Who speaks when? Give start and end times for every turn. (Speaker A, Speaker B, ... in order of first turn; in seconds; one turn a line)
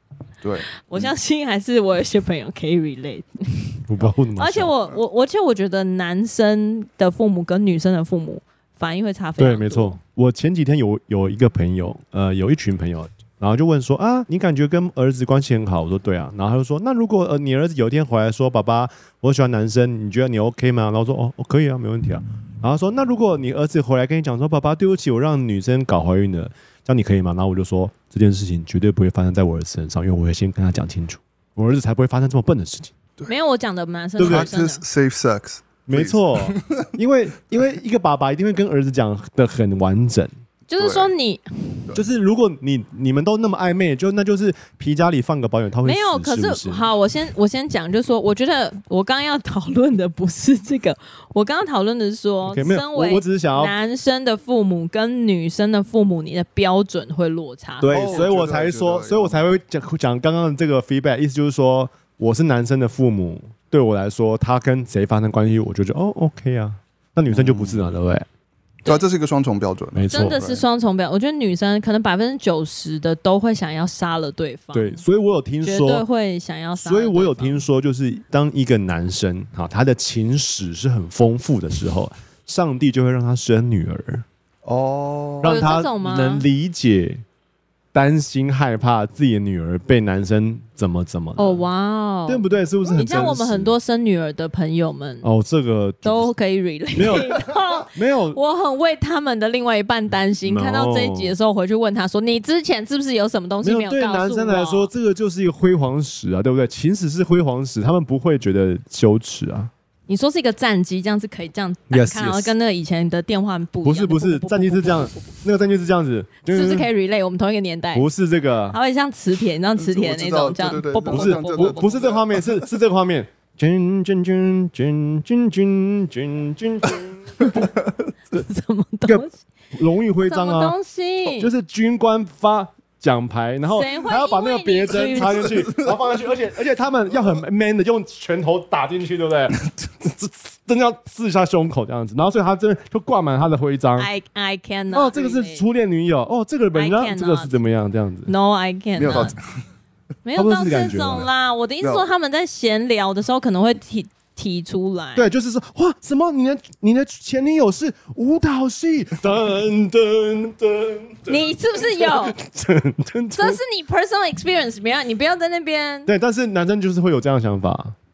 Speaker A: 0.4-1.1
Speaker B: 0.8-3.8
Speaker C: 3.9-4.7
Speaker B: 4.3-10.0
Speaker C: 9.4-32.9
Speaker B: 33.2-34.8
Speaker C: 34.2-34.5
Speaker A: 34.2-36.9
Speaker C: 35.9-40.3
Speaker B: 40.7-41.8
Speaker A: 40.8-41.1
Speaker C: 41.9-46.9
Speaker B: 45.8-58.3
Speaker C: 52.5-53.7
Speaker C: 57.8-68.2
Speaker A: 57.9-59.4
Speaker A: 67.3-67.9
Speaker A: 68.8-70.6
Speaker C: 69.9-70.4
Speaker B: 70.1-75.0
Speaker C: 74.7-76.0
Speaker B: 75.6-77.6
Speaker C: 76.8-84.2
Speaker A: 84.6-85.7
Speaker C: 85.4-87.2
Speaker B: 85.4-86.5
Speaker C: 87.9-91.6
Speaker B: 91.4-95.2
Speaker C: 92.3-93.7
Speaker C: 95.2-96.3
Speaker B: 96.0-104.9
Speaker C: 96.9-98.4
Speaker C: 100.4-101.3
Speaker C: 103.6-109.7
Speaker B: 110.1-115.2
Speaker C: 111.9-112.5
Speaker C: 113.8-116.9
Speaker B: 116.5-118.1
Speaker C: 117.9-118.8
Speaker B: 118.7-121.9
Speaker A: 119.8-122.7
Speaker C: 121.0-127.6
Speaker A: 127.5-127.9
Speaker B: 128.3-129.4
Speaker C: 129.1-130.7
Speaker B: 130.3-131.5
Speaker C: 131.2-144.1
Speaker B: 133.7-135.5
Speaker A: 135.1-136.2
Speaker B: 144.0-145.6
Speaker C: 144.9-148.3
Speaker B: 146.7-147.5
Speaker B: 148.3-149.3
Speaker A: 148.9-149.5
Speaker B: 150.2-155.2
Speaker C: 150.3-151.3
Speaker A: 151.8-152.1
Speaker C: 155.2-163.6
Speaker B: 161.3-162.3
Speaker B: 163.3-166.1
Speaker C: 166.1-167.9